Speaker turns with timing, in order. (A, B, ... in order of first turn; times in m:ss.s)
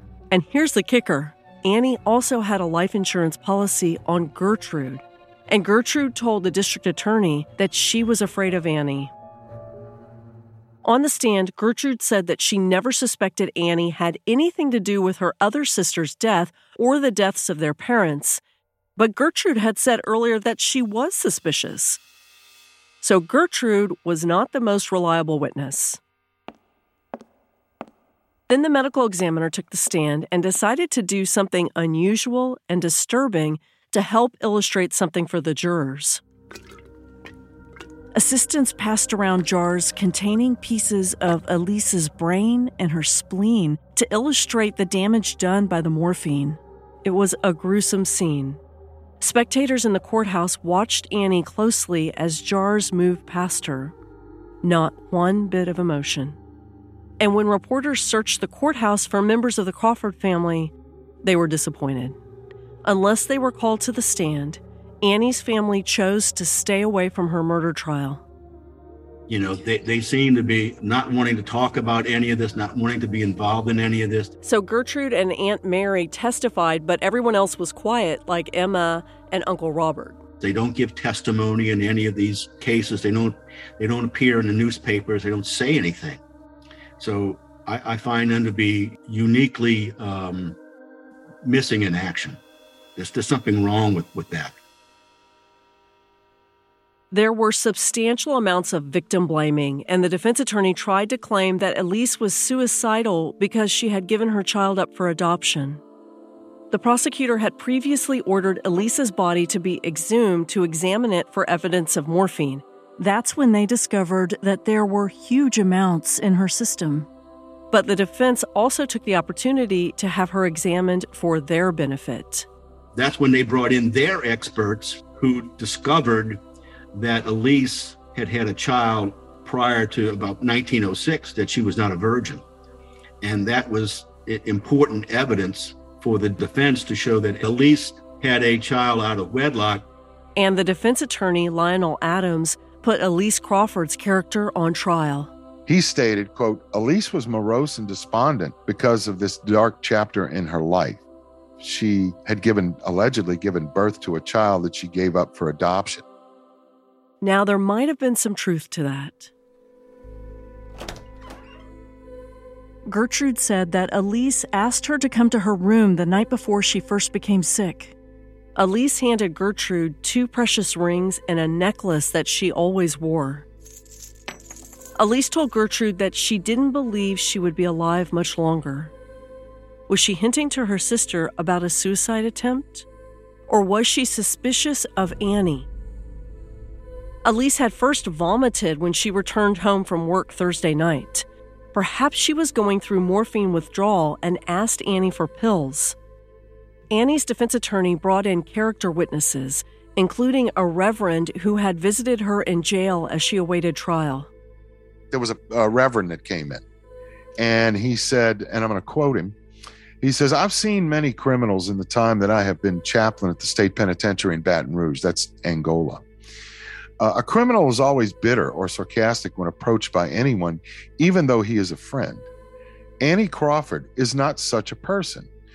0:00.3-0:09.1 A
0:10.8-0:18.4 A
0:19.0-0:22.0 A
0:23.0-0:26.0 A
0:28.5-0:36.2 A
0:38.1-0:48.6 A
0:49.2-0:53.9 A
0:54.6-0:56.4 A
0:57.2-1:02.2 A
1:02.8-1:08.2 A
1:09.3-1:14.3 B
1:14.4-1:20.2 A
1:20.4-1:26.2 B
1:27.0-1:30.6 B
1:31.4-1:32.4 B
1:33.0-1:34.6 B
1:37.1-1:45.8 A
1:46.7-1:57.1 A
1:57.7-2:02.5 A
2:03.0-2:06.4 B
2:06.9-2:12.4 B
2:13.2-2:19.9 B
2:20.4-2:25.3 A
2:25.7-2:31.0 C
2:31.6-2:36.0 C
2:37.2-2:39.3 A
2:42.8-2:47.9 A
2:48.6-2:53.5 A
2:55.0-2:58.9 A
2:59.9-3:02.9 A
3:03.5-3:05.7 A
3:07.2-3:16.0 A
3:16.9-3:24.3 A
3:25.1-3:26.6 C
3:27.4-3:29.4 C
3:30.0-3:36.0 C
3:37.0-3:42.3 C
3:43.0-3:45.3 C